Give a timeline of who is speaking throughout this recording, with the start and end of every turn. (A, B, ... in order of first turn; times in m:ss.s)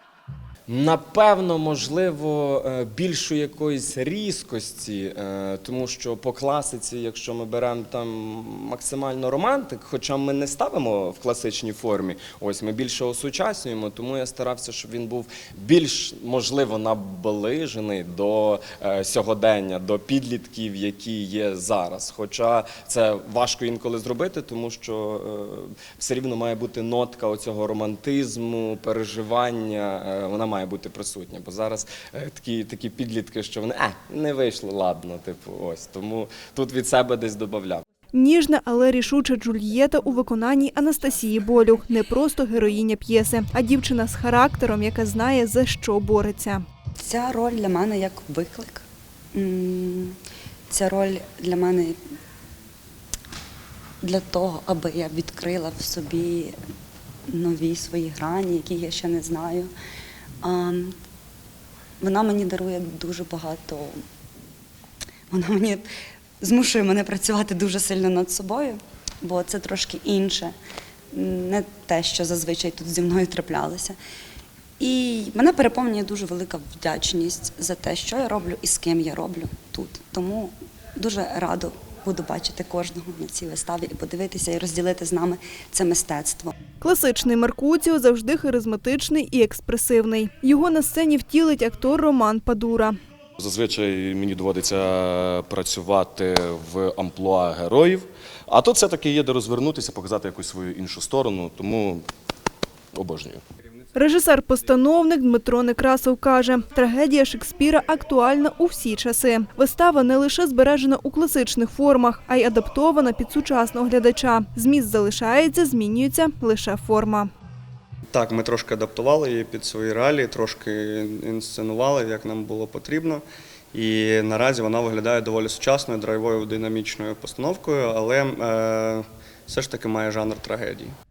0:00.7-0:37.8 A
0:38.1-0:46.6 B
0:47.0-0:50.2 C
0:50.7-0:52.0 C
0:54.0-0:56.5 C
0:57.3-0:59.7 C
1:00.4-1:00.9 C
1:02.0-1:04.0 C
1:05.3-1:05.8 C
1:06.4-1:10.5 C
1:11.1-1:14.0 C
1:14.8-1:26.5 C
1:26.8-1:33.0 B
1:33.4-1:42.0 D
1:42.9-1:43.4 D
1:43.9-1:57.3 B
1:58.1-2:10.9 E